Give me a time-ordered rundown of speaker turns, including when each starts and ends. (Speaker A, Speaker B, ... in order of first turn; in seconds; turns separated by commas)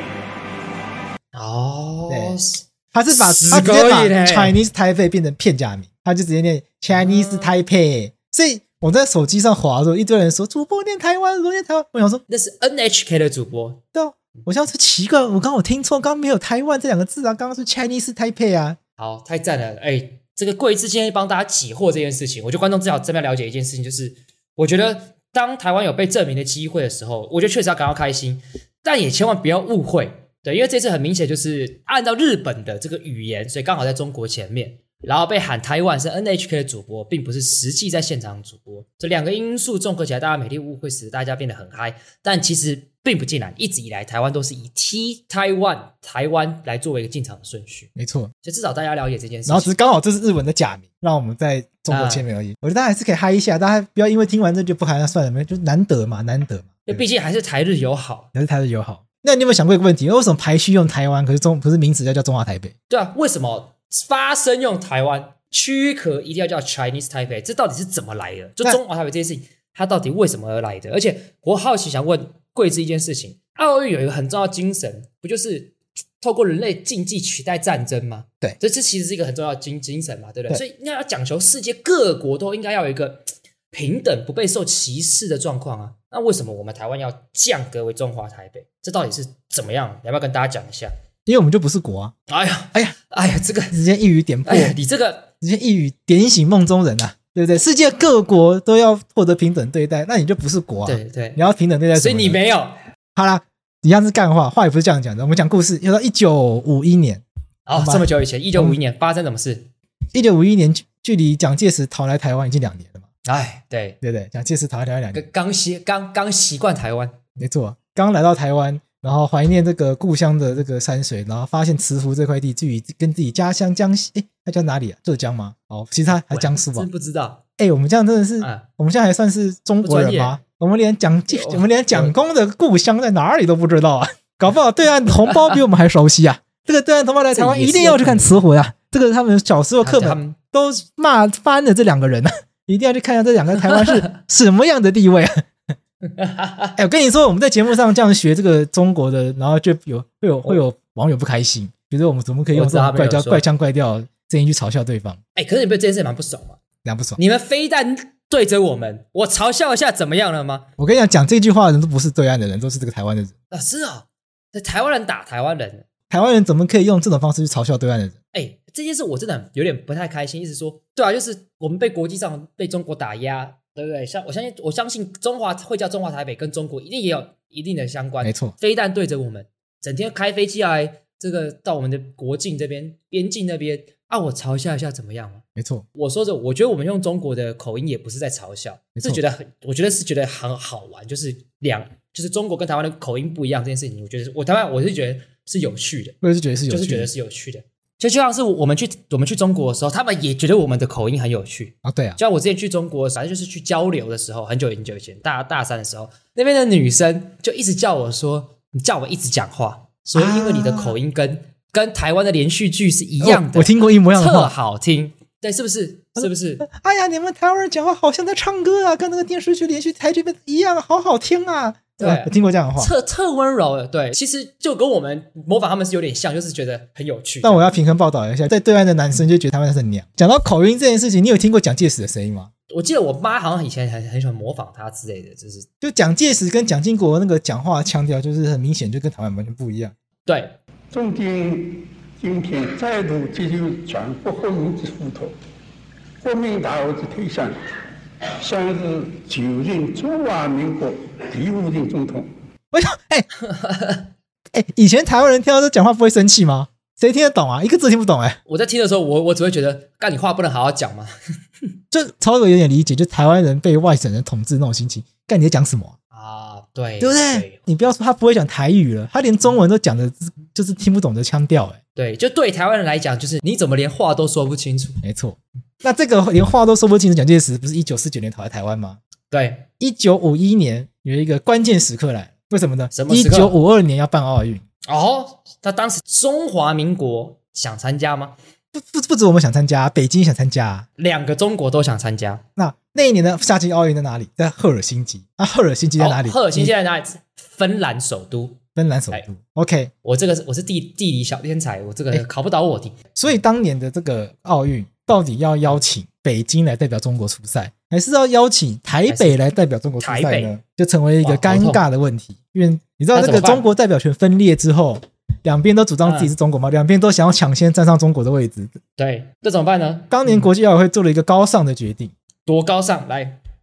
Speaker A: 1.3-4.6, Speaker B: 2.1-2.4, Speaker B: 2.9-12.2, Speaker A: 6.9-7.6, Speaker A: 12.3-13.8, Speaker B: 13.9-18.8, Speaker A: 19.0-47.9, Speaker B: 48.0-48.3, Speaker A: 48.4-49.7, Speaker B: 49.5-57.0, Speaker A: 51.9-52.3, Speaker A: 56.9-58.3, Speaker B: 58.3-62.7, Speaker A: 62.9-90.9, Speaker B: 91.3-92.1, Speaker A: 92.3-93.8, Speaker B: 93.7-94.8, Speaker A: 94.5-95.3, Speaker B: 95.4-102.4, Speaker A: 100.8-101.4, Speaker A: 102.0-102.8, Speaker B: 103.2-107.2, Speaker A: 107.7-109.7, Speaker B: 107.8-108.8, Speaker B: 110.1-113.0, Speaker A: 113.2-114.0, Speaker B: 114.0-115.3, Speaker A: 115.1-117.2, Speaker B: 117.4-126.9, Speaker A: 126.3-127.4, Speaker B: 127.6-145.5, Speaker A: 128.4-128.7, Speaker A: 129.8-130.4, Speaker A: 131.3-132.2, Speaker A: 137.3-138.4, Speaker A: 139.8-140.4, Speaker A: 143.6-144.0, Speaker A: 146.0-146.8, Speaker B: 146.8-155.2, Speaker A: 152.5-153.4, Speaker A: 155.3-156.6, Speaker B: 156.8-157.2, Speaker A: 157.2-160.7, Speaker B: 160.8-163.3, Speaker A: 163.5-165.9, Speaker B: 166.1-168.2, Speaker A: 168.3-185.4, Speaker B: 178.2-178.5, Speaker B: 185.6-185.8, Speaker A: 185.9-196.2, Speaker B: 189.0-189.2, Speaker B: 196.2-197.1, Speaker A: 196.7-216.7, Speaker B: 201.8-202.2, Speaker B: 210.2-211.0, Speaker B: 213.2-214.5, Speaker B: 216.2-222.9, Speaker A: 222.0-227.7, Speaker B: 227.4-232.5, Speaker A: 232.7-235.7, Speaker B: 235.8-239.9, Speaker A: 240.3-240.6, Speaker C: 240.9-245.3, Speaker C: 246.2-247.6, Speaker C: 248.4-252.3, Speaker B: 252.7-253.3, Speaker A: 253.4-254.1, Speaker B: 254.5-258.4, Speaker A: 258.5-261.1, Speaker B: 261.9-266.0, Speaker A: 266.1-267.6, Speaker B: 267.0-271.8, Speaker A: 272.0-275.0, Speaker B: 275.0-279.0, Speaker A: 279.3-279.7, Speaker B: 279.8-284.6, Speaker A: 282.9-283.6, Speaker A: 284.9-288.4, Speaker B: 288.7-290.9, Speaker A: 291.0-292.4, Speaker B: 292.6-296.7, Speaker A: 296.0-298.6, Speaker B: 298.8-299.9, Speaker A: 300.0-303.0, Speaker B: 303.1-318.8, Speaker A: 309.1-309.4, Speaker A: 310.0-310.6, Speaker A: 311.2-311.8, Speaker A: 313.1-313.7, Speaker A: 316.1-316.3, Speaker A: 319.0-320.5, Speaker B: 320.1-322.1, Speaker A: 322.5-323.4